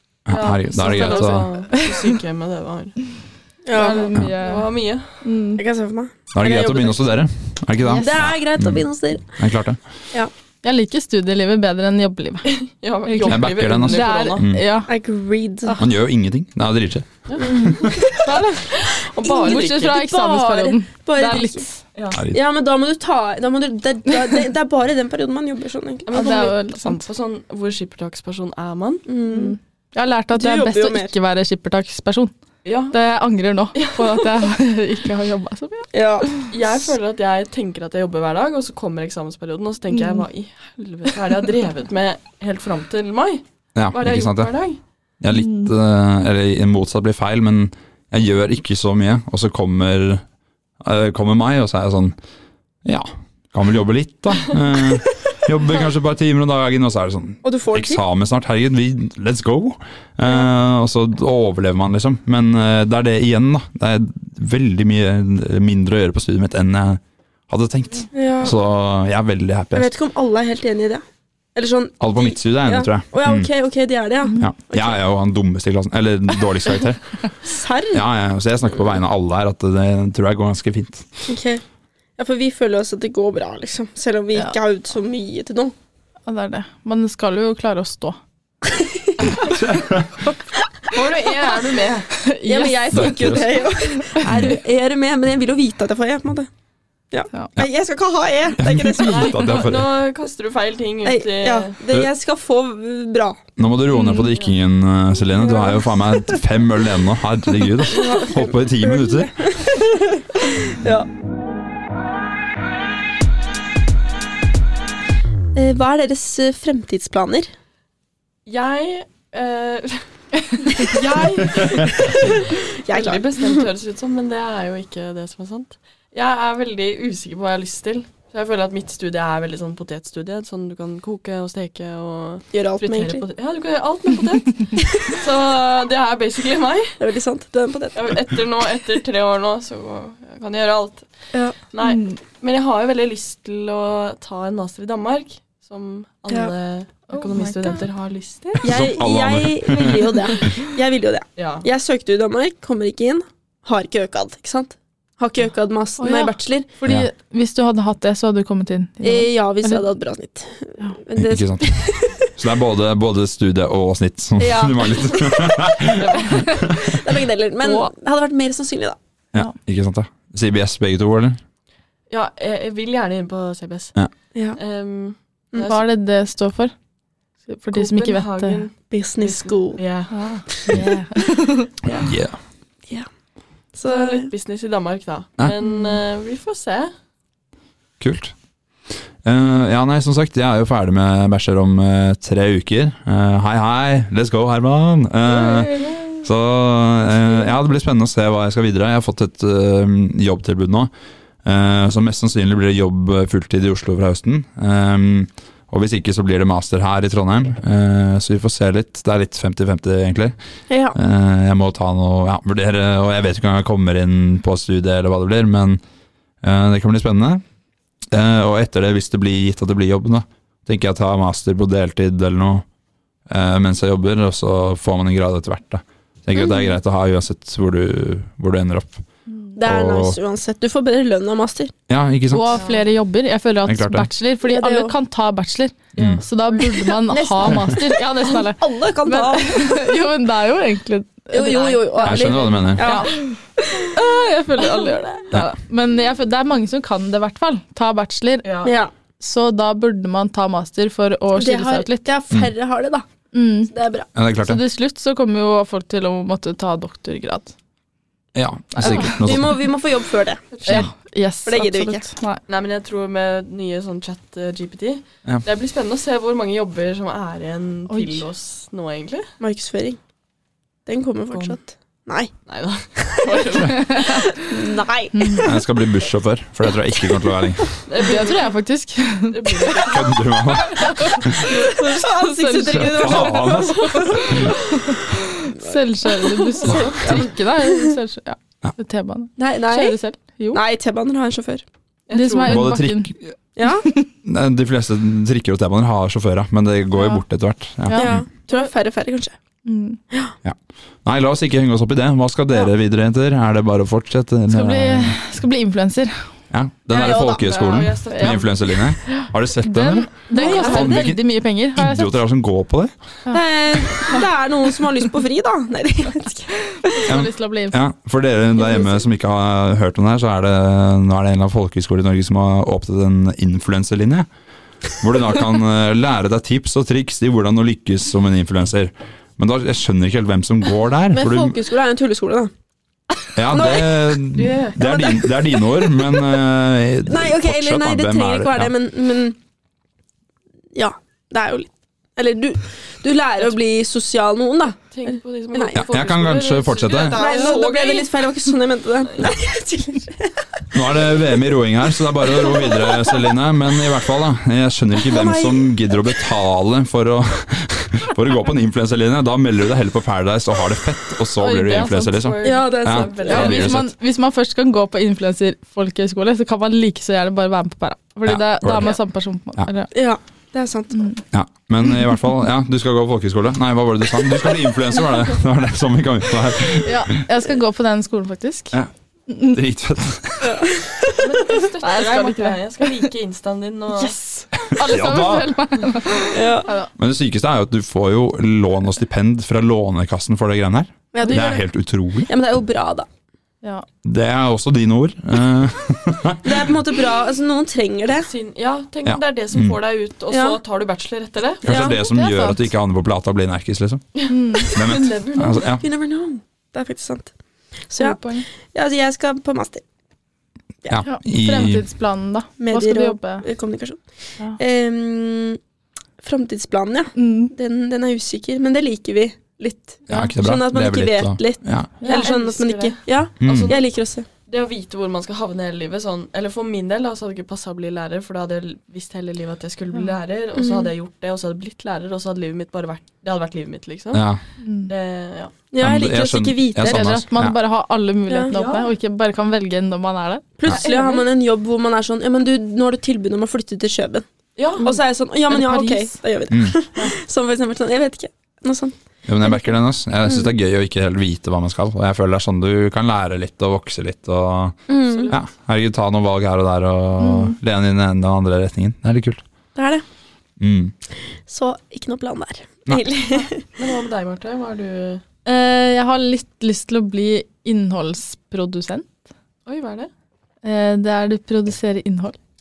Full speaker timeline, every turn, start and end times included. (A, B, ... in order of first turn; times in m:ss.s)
0:00.3-0:01.5 A
0:00.3-0:03.0 B
0:00.8-0:02.0 C
0:03.7-0:04.2 D
0:03.7-0:04.7 C
0:04.4-0:05.2 B
0:05.2-0:05.6 C
0:05.6-0:07.0 D
0:06.3-0:08.8 A
0:08.0-0:09.3 D
0:09.4-0:09.8 A
0:10.6-0:14.9 C
0:12.4-0:14.4 B
0:13.3-0:14.6 A
0:14.9-0:15.8 D
0:15.8-0:17.9 A
0:17.4-0:18.2 D
0:17.4-0:18.7 C
0:18.7-0:20.0 B
0:19.2-0:21.6 D
0:19.4-0:21.8 C
0:22.1-0:22.4 A
0:22.3-0:26.5 D
0:26.1-0:29.1 B
0:26.1-0:27.1 C
0:29.1-0:29.6 D
0:29.3-0:32.3 C
0:30.3-0:31.1 D
0:32.6-0:33.0 B
0:32.9-0:36.5 C
0:33.8-0:34.3 B
0:35.9-0:36.3 D
0:36.5-0:44.8 B
0:39.9-0:40.2 C
0:43.8-0:44.5 A
0:45.2-0:50.2 A
0:45.3-0:45.7 C
0:50.8-0:52.2 A
0:52.8-1:09.9 A
0:57.4-0:58.0 D
1:08.1-1:08.6 D
1:09.8-1:11.0 D
1:11.6-1:15.0 D
1:12.0-1:13.5 A
1:14.4-1:17.2 A
1:17.4-1:18.0 D
1:17.9-1:21.1 A
1:21.3-1:21.6 D
1:22.2-1:25.7 D
1:26.3-1:28.2 C
1:28.7-1:29.6 D
1:29.4-1:30.2 A
1:30.9-1:32.1 B
1:32.2-1:33.4 C
1:32.5-1:36.5 D
1:32.9-1:33.5 A
1:34.2-1:34.6 A
1:37.1-1:39.6 D
1:38.6-1:39.9 A
1:39.0-1:41.8 B
1:41.0-1:43.4 D
1:43.6-1:49.6 A
1:43.9-1:44.3 C
1:45.4-1:46.4 D
1:47.9-1:51.1 D
1:55.6-1:57.5 D
1:58.5-2:17.0 B
2:01.7-2:03.7 D
2:12.5-2:13.2 D
2:17.0-2:18.0 D
2:17.9-2:21.1 B
2:21.7-2:28.7 B
2:21.8-2:22.2 C
2:27.1-2:27.8 C
2:28.6-2:36.7 D
2:28.6-2:30.2 A
2:31.4-2:31.7 B
2:36.0-2:39.8 C
2:39.0-2:42.3 D
2:41.2-2:41.8 A
2:42.4-2:46.8 A
2:44.4-2:45.6 D
2:46.0-2:46.7 B
2:46.6-2:49.0 D
2:49.3-2:51.4 A
2:52.1-2:54.0 B
2:54.6-2:55.8 B
2:55.6-2:56.7 C
2:57.5-2:58.6 C
2:57.7-3:00.3 B
2:58.9-2:59.8 D
3:00.1-3:01.7 C
3:01.9-3:02.1 D
3:02.0-3:02.4 A
3:03.7-3:04.3 D
3:03.9-3:06.9 B
3:08.0-3:08.3 A
3:09.2-3:20.9 A
3:15.6-3:16.0 D
3:21.4-3:30.4 A
3:30.7-3:31.0 D
3:30.9-3:35.8 A
3:36.4-3:37.4 A
3:38.1-3:42.6 A
3:43.3-3:49.0 A
3:46.4-3:46.7 D
3:49.6-3:51.7 D
3:49.6-3:50.2 A
3:51.9-3:52.6 A
3:52.3-4:03.3 C
3:52.5-3:52.8 B
3:53.7-3:54.1 A
3:54.4-3:54.9 D
3:56.0-3:56.8 B
3:56.0-3:56.2 A
3:57.0-3:59.9 D
4:01.3-4:03.9 D
4:02.0-4:03.0 A
4:03.9-4:08.5 C
4:08.4-4:08.7 B
4:08.6-4:08.9 D
4:09.2-4:12.1 C
4:11.4-4:13.1 D
4:13.3-4:13.7 C
4:13.7-4:14.1 D
4:14.2-4:14.6 A
4:14.4-4:17.5 C
4:18.4-4:19.6 A
4:18.8-4:19.2 C
4:18.8-4:20.4 D
4:20.5-4:20.9 B
4:20.7-4:22.4 C
4:21.5-4:22.1 D
4:22.5-4:29.3 B
4:27.9-4:28.2 C
4:29.4-4:30.0 D
4:30.9-4:32.3 D
4:31.3-4:31.6 B
4:32.5-4:34.3 B
4:33.0-4:35.5 D
4:34.0-4:34.2 C
4:35.1-4:35.5 C
4:35.4-4:37.7 A
4:37.9-4:38.5 B
4:38.0-4:39.9 C
4:39.3-4:40.6 B
4:39.9-4:41.4 A
4:40.5-4:50.6 C
4:41.3-4:44.5 D
4:42.7-4:44.5 A
4:45.6-4:47.9 D
4:46.6-4:47.2 B
4:46.6-4:47.2 A
4:49.4-4:50.0 D
4:50.5-4:51.6 D
4:52.1-4:52.7 B
4:52.1-4:53.1 C
4:52.4-4:53.4 A
4:53.6-4:53.9 D
4:54.2-4:58.3 A
4:56.9-4:57.2 C
4:57.8-4:58.1 C
4:57.9-4:59.4 D
4:59.6-5:00.0 C
5:00.4-5:05.2 A
5:04.5-5:06.2 C
5:06.5-5:12.9 A
5:06.9-5:07.5 D
5:07.2-5:08.6 B
5:08.1-5:12.2 C
5:10.3-5:11.1 D
5:13.3-5:17.0 D
5:16.8-5:17.8 C
5:17.1-5:24.3 A
5:18.6-5:19.0 D
5:25.0-5:31.6 A
5:31.1-5:32.5 D
5:33.4-5:38.7 A
5:33.5-5:34.2 D
5:34.4-5:34.8 B
5:34.8-5:36.2 D
5:37.1-5:39.4 D
5:40.7-5:45.8 D
5:44.9-5:48.1 B
5:45.7-5:47.2 A
5:47.1-5:50.8 D
5:49.0-5:49.3 B
5:50.7-6:03.9 A
5:52.3-5:53.3 D
5:55.0-5:56.0 D
6:01.4-6:02.2 C
6:01.6-6:03.8 B
6:02.4-6:03.6 D
6:03.3-6:09.9 C
6:08.3-6:09.0 A
6:09.9-6:11.0 D
6:10.9-6:11.2 C
6:11.3-6:17.2 A
6:16.8-6:18.8 C
6:18.7-6:20.8 A
6:20.4-6:21.1 D
6:21.2-6:24.2 B
6:21.8-6:22.6 C
6:23.9-6:26.9 C
6:24.7-6:25.5 A
6:26.3-6:26.7 D
6:27.0-6:32.3 A
6:31.1-6:31.6 D
6:32.3-6:33.1 D
6:34.0-6:36.7 A
6:36.4-6:38.3 D
6:38.2-6:41.9 B
6:39.0-6:39.8 A
6:40.3-6:40.6 D
6:41.6-6:44.0 A
6:41.6-6:42.0 D
6:41.9-6:42.6 C
6:44.1-6:45.7 B
6:44.3-6:44.8 C
6:44.7-6:45.8 A
6:45.8-6:47.3 D
6:47.9-6:48.2 D
6:48.0-6:48.4 C
6:48.7-6:49.8 D
6:50.9-6:51.8 A
6:51.0-6:53.4 C
6:52.6-6:54.0 D
6:54.6-6:55.6 D
6:56.2-7:04.3 D
6:57.2-6:57.5 C
7:00.1-7:01.9 A
7:02.0-7:02.3 C
7:02.0-7:03.9 B
7:03.4-7:03.7 A
7:04.5-7:14.3 B
7:10.6-7:10.9 D
7:14.1-7:14.4 A
7:14.6-7:14.9 C
7:14.9-7:15.5 B
7:15.7-7:17.2 D
7:15.8-7:17.6 A
7:16.8-7:20.5 C
7:18.3-7:18.6 D
7:18.5-7:18.9 B
7:20.6-7:24.2 D
7:20.7-7:21.3 B
7:24.6-7:24.9 B
7:24.8-7:26.2 C
7:24.8-7:29.6 D
7:26.5-7:26.8 A
7:29.3-7:39.4 A
7:34.9-7:35.4 D
7:35.1-7:35.4 B
7:37.2-7:37.6 C
7:39.8-7:40.0 D
7:40.6-7:40.9 A
7:41.5-7:43.6 D
7:43.8-7:45.2 B
7:45.5-7:49.1 C
7:49.7-7:50.1 B
7:50.6-7:52.4 C